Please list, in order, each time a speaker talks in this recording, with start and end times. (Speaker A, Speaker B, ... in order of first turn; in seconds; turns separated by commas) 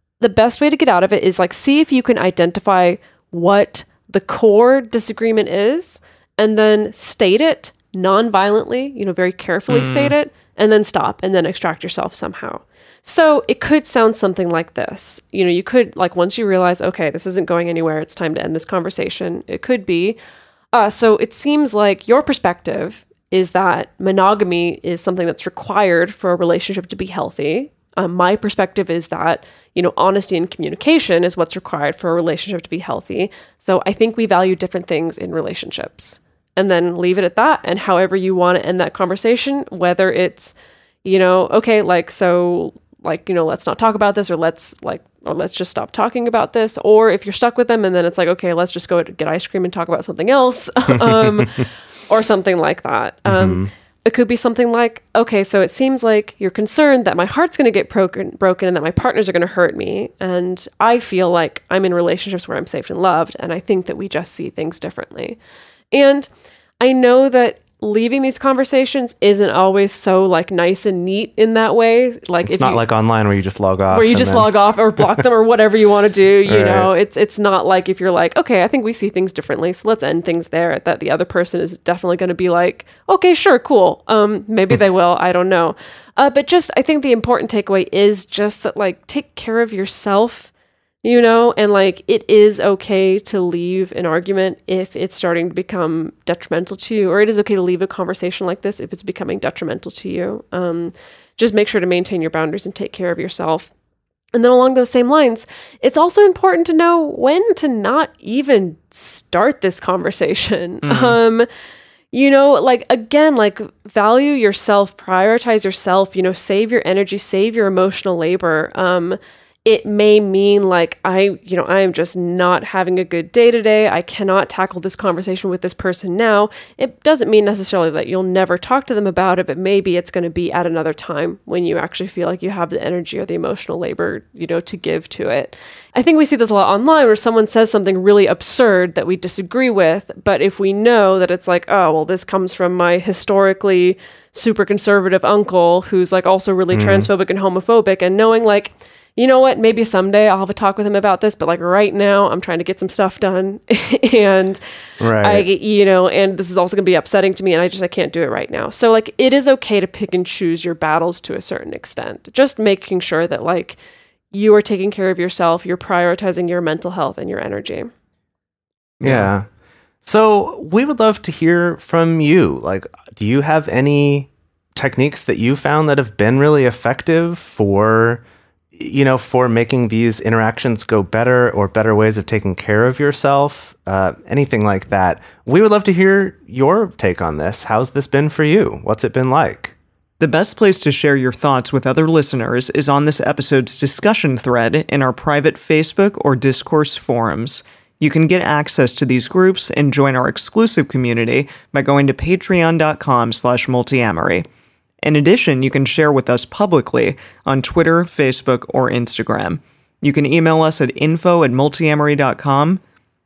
Speaker A: 0.2-20.2, Speaker B: 9.7-10.2, Speaker A: 20.7-65.4, Speaker C: 51.0-51.6, Speaker C: 53.3-53.7, Speaker A: 65.9-66.3, Speaker A: 66.8-72.8, Speaker C: 72.5-75.2, Speaker A: 73.9-90.5, Speaker C: 76.5-76.9, Speaker A: 91.0-103.7, Speaker A: 104.3-111.5, Speaker B: 110.8-111.2, Speaker A: 112.1-154.6, Speaker C: 146.7-147.1, Speaker C: 155.0-155.5, Speaker A: 155.2-163.8, Speaker A: 164.3-167.9, Speaker B: 169.0-169.3, Speaker C: 169.0-169.5, Speaker C: 170.0-178.2, Speaker C: 178.8-189.7, Speaker B: 190.2-204.5, Speaker B: 205.0-212.8